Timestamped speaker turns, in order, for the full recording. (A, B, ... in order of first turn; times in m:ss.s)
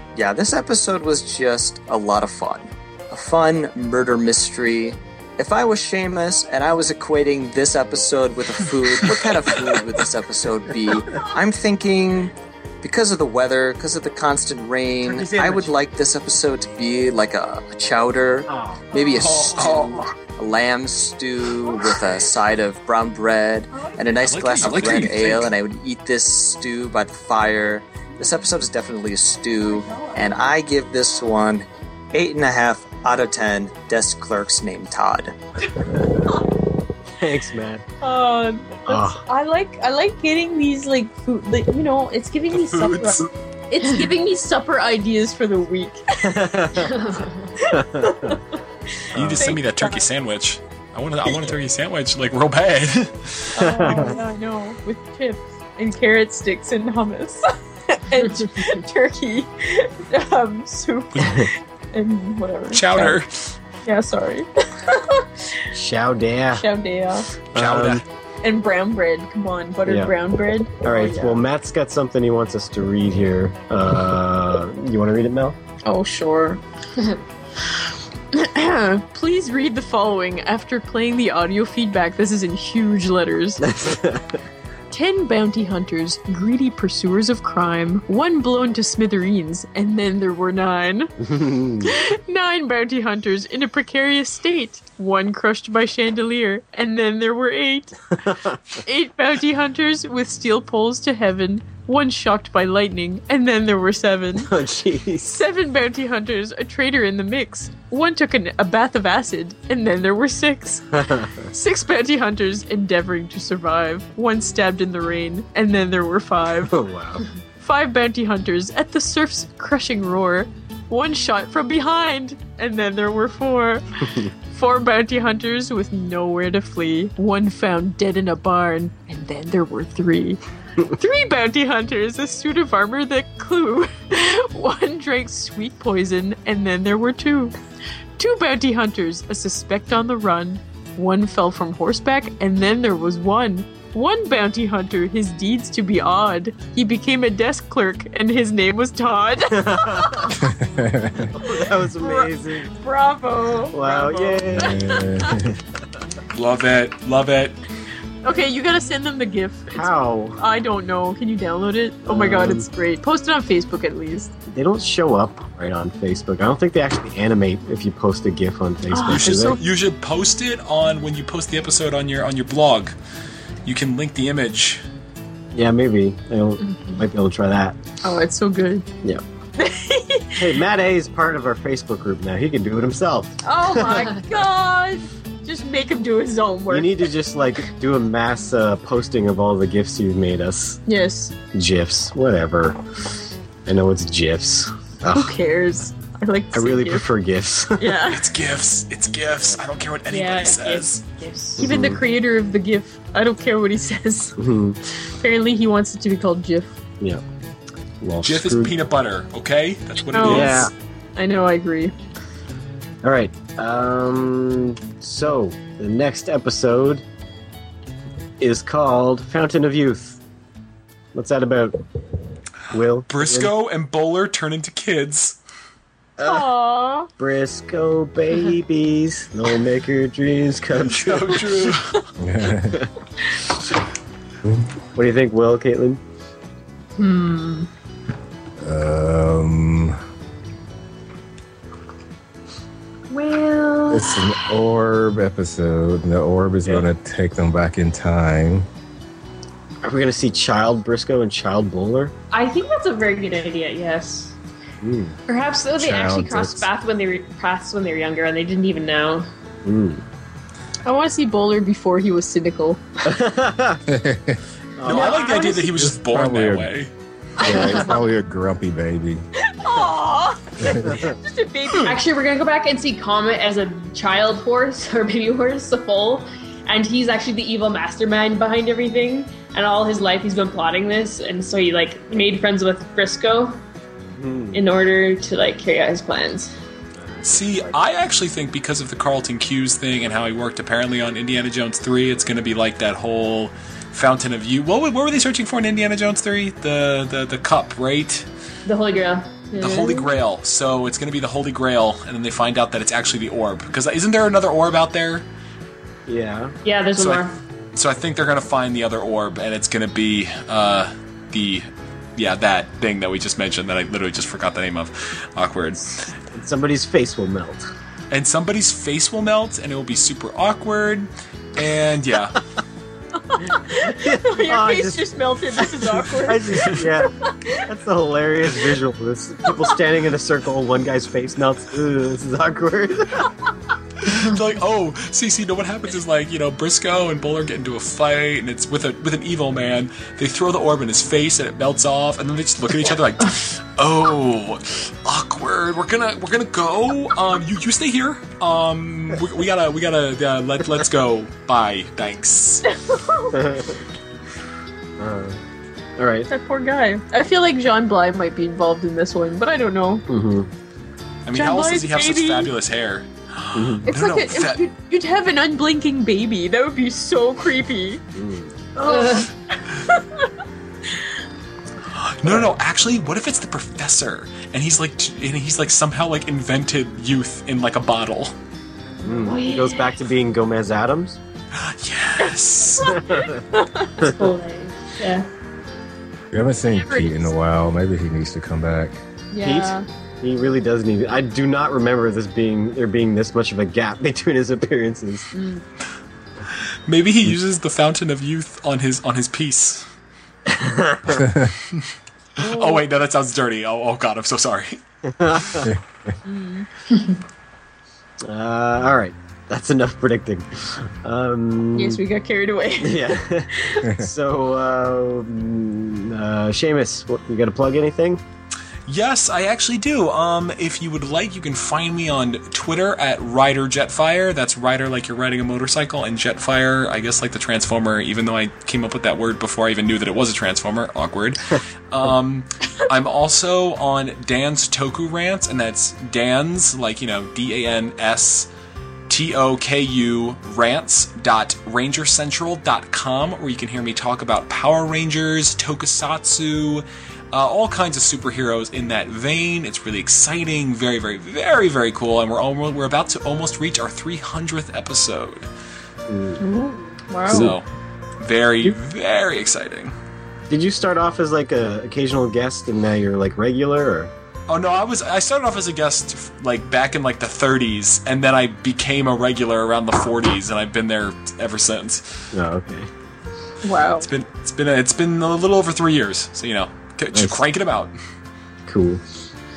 0:00.2-0:35.4 A
0:15.0-0:15.7 B
0:18.5-0:19.6 B
0:19.2-0:20.0 C
0:24.2-0:25.5 C
0:29.9-0:30.2 D
0:37.2-0:37.8 B
0:38.0-0:46.9 D
0:38.9-0:39.2 B
0:42.6-0:43.3 C
0:46.2-0:46.9 B
0:46.9-0:47.5 E
0:47.6-0:50.0 D
0:47.7-0:48.4 B
0:49.1-0:49.5 B
0:49.2-0:53.5 C
0:53.5-1:03.2 D
0:53.6-0:54.2 B
1:02.7-1:03.5 C
1:03.8-1:05.7 D
1:05.7-1:06.6 B
1:06.5-1:07.3 D
1:07.5-1:08.0 B
1:07.6-1:08.0 C
1:08.4-1:11.4 D
1:09.9-1:10.1 B
1:10.8-1:15.6 B
1:15.8-1:16.6 D
1:18.3-1:23.7 D
1:23.6-1:24.4 B
1:24.9-1:31.1 D
1:31.3-1:31.9 B
1:31.8-1:38.2 D
1:38.7-1:44.5 D
1:44.4-1:45.4 B
1:45.3-1:56.8 D
1:51.0-1:51.3 B
1:56.7-1:57.2 B
1:57.6-2:17.6 D
2:18.2-2:30.4 D
2:29.5-2:30.3 B
2:30.4-2:31.3 F
2:31.3-2:32.7 B
2:31.5-2:35.5 D
2:33.7-2:35.6 B
2:34.6-2:35.5 F
2:36.3-2:37.6 C
2:38.2-2:44.3 D
2:39.7-2:40.4 B
2:42.1-2:42.6 B
2:44.5-2:49.6 B
2:48.9-2:49.6 D
2:49.1-2:52.9 C
2:53.7-2:54.8 C
2:55.5-2:57.8 B
2:58.0-2:58.9 D
2:59.6-3:00.5 D
3:00.4-3:04.1 B
3:03.4-3:07.1 D
3:06.7-3:10.8 B
3:10.9-3:11.4 D
3:11.5-3:12.8 B
3:13.7-3:15.3 B
3:15.1-3:17.1 D
3:16.5-3:18.0 B
3:17.8-3:18.3 D
3:18.1-3:21.0 C
3:20.1-3:21.6 E
3:21.6-3:24.4 D
3:21.6-3:22.0 B
3:24.4-3:24.8 B
3:25.2-3:26.8 D
3:28.0-3:28.7 B
3:28.2-3:30.7 C
3:30.1-3:31.9 D
3:30.2-3:30.7 B
3:33.0-3:37.0 B
3:38.4-3:40.2 B
3:41.2-3:41.8 B
3:42.7-3:43.5 B
3:43.1-3:45.4 C
3:46.2-3:46.5 B
3:46.2-3:47.1 D
3:47.2-3:51.7 B
3:50.7-3:52.0 C
3:52.2-3:52.9 F
3:55.0-3:56.0 B
3:57.0-3:57.7 E
3:58.6-4:00.0 F
4:03.1-4:04.5 E
4:03.9-4:08.7 F
4:09.8-4:12.1 B
4:12.3-4:14.4 E
4:14.8-4:15.2 B
4:15.3-4:19.3 E
4:15.8-4:16.7 F
4:19.6-4:20.0 B
4:20.8-4:22.8 D
4:23.0-4:23.8 B
4:23.9-4:24.4 F
4:24.8-4:25.4 B
4:24.9-4:26.9 C
4:24.9-4:25.6 E
4:25.7-4:26.7 F
4:27.4-4:29.2 F
4:27.4-4:27.8 B
4:29.4-4:32.0 D
4:30.6-4:30.9 F
4:31.8-4:43.6 E
4:44.1-4:44.7 B
4:44.5-4:46.5 E
4:47.0-4:47.8 B
4:47.2-4:58.3 C
4:58.7-5:00.1 E
4:59.6-5:05.2 C
5:06.1-5:06.6 B
5:06.6-5:07.4 E
5:07.0-5:16.1 C
5:16.2-5:17.7 B
5:18.1-5:22.4 C
5:23.2-5:27.6 D
5:23.8-5:25.1 B
5:25.6-5:33.3 B
5:34.0-5:52.6 C
5:52.7-5:53.4 D
5:53.3-5:53.8 B
5:55.0-5:55.4 B
5:56.0-5:56.3 B
5:56.3-6:00.1 D
6:00.1-6:00.5 B
6:01.2-6:04.6 C
6:01.3-6:02.5 D
6:03.6-6:03.9 B
6:03.8-6:08.0 D
6:08.2-6:08.7 B
6:08.8-6:09.3 D
6:08.8-6:09.3 E
6:09.8-6:10.3 D
6:11.9-6:18.3 C
6:12.2-6:12.5 B
6:19.0-6:19.9 E
6:19.0-6:21.2 B
6:21.5-6:23.0 C
6:22.3-6:24.0 D
6:22.8-6:23.4 B
6:24.0-6:25.3 E
6:26.3-6:29.0 F
6:26.6-6:27.3 D
6:29.3-6:29.8 D
6:29.4-6:35.3 B
6:36.9-6:39.9 C
6:40.5-6:41.2 B
6:41.1-6:41.5 F
6:42.4-6:44.8 C
6:42.4-6:42.8 D
6:45.0-6:45.7 B
6:46.2-6:46.7 D
6:46.9-6:47.2 E
6:48.2-6:52.0 B
6:51.8-6:53.9 D
6:52.8-6:58.2 B
6:58.9-7:18.5 C
7:19.1-7:35.5 C
7:36.1-7:36.4 B
7:36.4-7:37.5 D
7:37.3-7:37.6 C
7:38.2-7:39.9 C
7:40.5-7:44.1 B
7:44.5-7:52.2 C
7:52.3-7:52.9 B
7:53.6-7:54.1 D
7:54.0-7:57.9 C
7:58.7-7:59.0 B